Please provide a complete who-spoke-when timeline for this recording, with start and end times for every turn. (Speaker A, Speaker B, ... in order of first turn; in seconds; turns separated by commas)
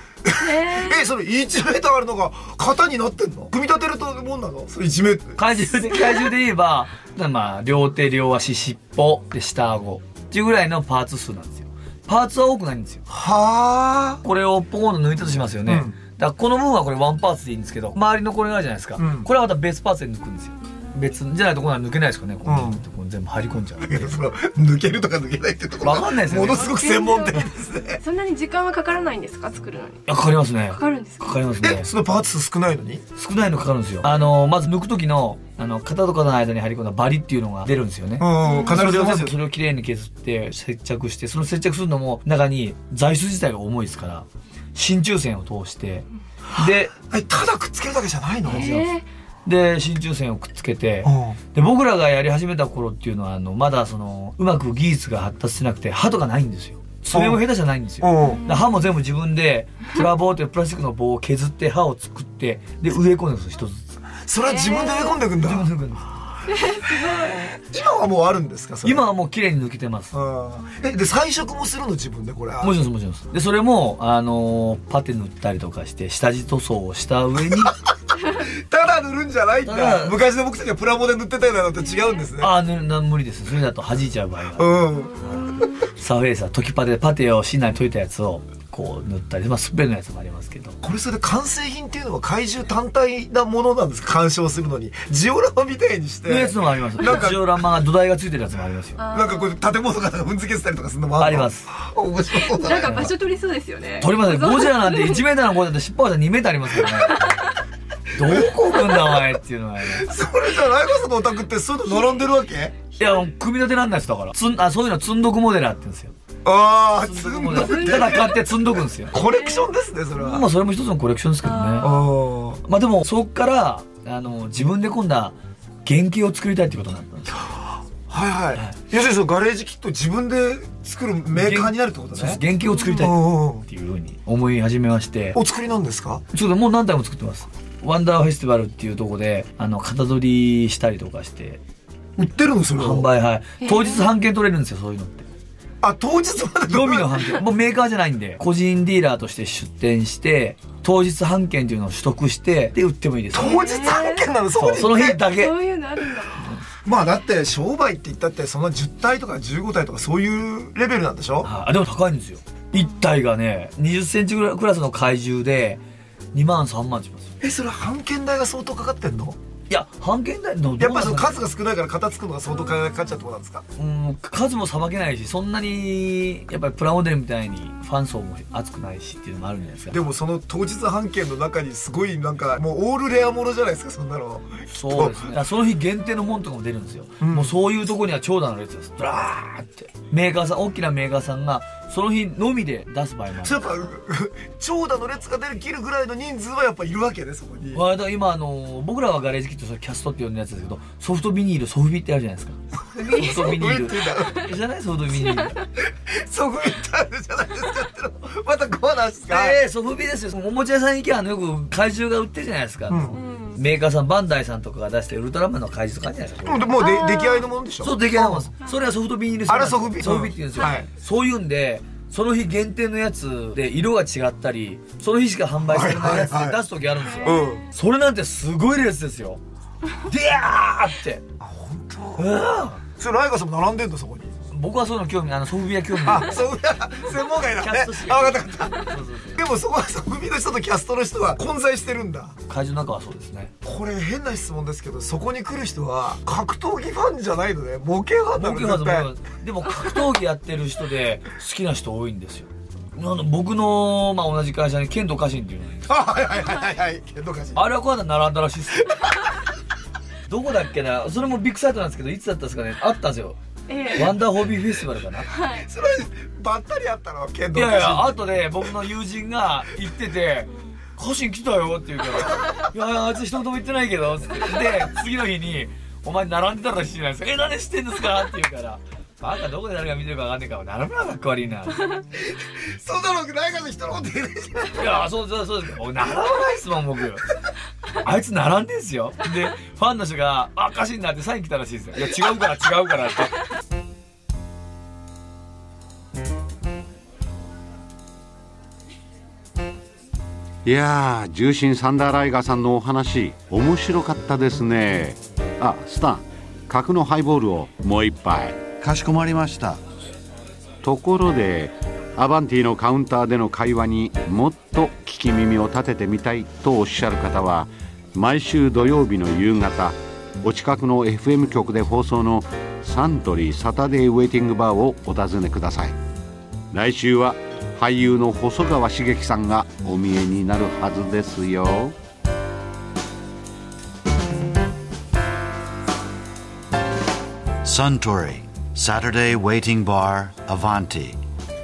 Speaker A: 0.2-5.6, Speaker B: 0.4-1.0, Speaker C: 5.4-13.0, Speaker A: 13.1-14.2, Speaker C: 14.2-24.2, Speaker A: 15.7-15.9, Speaker A: 19.0-19.3, Speaker A: 22.4-22.8, Speaker A: 23.8-28.0, Speaker C: 25.8-26.8, Speaker B: 26.6-27.4, Speaker B: 28.0-30.1, Speaker C: 30.1-31.9, Speaker B: 30.7-31.2, Speaker A: 31.6-33.0, Speaker C: 33.1-46.9, Speaker A: 38.2-39.4, Speaker B: 38.5-38.8, Speaker A: 46.5-48.7, Speaker C: 48.5-64.0, Speaker B: 48.6-49.0, Speaker A: 51.0-51.4, Speaker A: 57.1-57.5, Speaker A: 58.0-58.4, Speaker A: 64.2-65.7, Speaker B: 64.4-65.2, Speaker C: 65.4-66.3, Speaker B: 66.5-66.8, Speaker A: 67.1-69.0, Speaker C: 68.8-70.1, Speaker A: 70.1-72.7, Speaker C: 72.6-77.8, Speaker A: 77.8-82.5, Speaker C: 79.6-80.2, Speaker C: 82.4-90.8, Speaker A: 84.5-85.6, Speaker A: 90.8-97.7, Speaker C: 96.2-99.0, Speaker B: 99.0-99.5, Speaker A: 99.1-103.2, Speaker C: 101.2-101.7, Speaker B: 102.3-105.2, Speaker C: 102.8-103.1, Speaker C: 104.0-107.2, Speaker C: 108.1-110.1, Speaker A: 108.2-108.5, Speaker A: 109.9-112.8, Speaker C: 113.0-116.1, Speaker A: 116.4-118.4, Speaker C: 117.0-119.2, Speaker B: 117.7-118.0, Speaker A: 119.1-120.5, Speaker B: 119.2-119.7, Speaker C: 120.2-121.9, Speaker B: 121.4-121.9, Speaker A: 121.8-122.6, Speaker C: 122.6-127.5, Speaker A: 127.5-133.7, Speaker C: 128.5-128.8, Speaker C: 131.3-135.4, Speaker A: 135.3-136.2, Speaker C: 136.3-141.6, Speaker A: 142.2-143.1, Speaker C: 142.7-145.3, Speaker B: 143.6-144.0, Speaker A: 145.8-147.2, Speaker C: 146.7-153.7, Speaker A: 153.3-155.3, Speaker B: 153.4-154.3, Speaker C: 154.5-155.6, Speaker B: 155.4-156.5, Speaker A: 156.8-161.5, Speaker C: 161.4-165.8, Speaker C: 166.3-167.3, Speaker A: 167.4-169.4, Speaker C: 169.7-171.4, Speaker A: 170.8-173.6, Speaker C: 173.8-180.0, Speaker A: 179.9-185.3, Speaker C: 184.7-193.7, Speaker A: 187.2-187.5, Speaker A: 193.4-197.9, Speaker C: 197.7-202.6, Speaker B: 202.9-203.6, Speaker A: 203.0-204.5, Speaker C: 203.1-205.6, Speaker A: 205.8-209.6, Speaker C: 209.3-216.8, Speaker A: 212.9-213.2, Speaker B: 213.1-213.6, Speaker A: 216.4-218.5, Speaker B: 216.8-217.4, Speaker C: 217.8-229.4, Speaker A: 219.5-220.9, Speaker A: 225.7-226.6, Speaker A: 227.1-227.6, Speaker C: 230.0-231.2, Speaker A: 231.4-232.3, Speaker C: 232.2-232.8, Speaker A: 232.9-234.3, Speaker C: 234.5-236.4, Speaker A: 236.0-242.3, Speaker C: 237.6-239.4, Speaker C: 242.5-243.5, Speaker A: 243.6-249.1, Speaker C: 248.3-255.8, Speaker A: 255.8-257.6, Speaker C: 257.5-259.0, Speaker C: 260.3-263.4, Speaker B: 263.7-264.1, Speaker C: 263.9-265.3, Speaker B: 265.3-265.6, Speaker A: 265.5-268.7, Speaker C: 267.5-282.0, Speaker A: 282.1-284.9, Speaker C: 284.7-287.2, Speaker C: 288.0-293.5, Speaker D: 300.6-308.6, Speaker E: 308.8-309.8, Speaker D: 310.8-325.9, Speaker D: 326.7-331.9, Speaker E: 337.6-341.2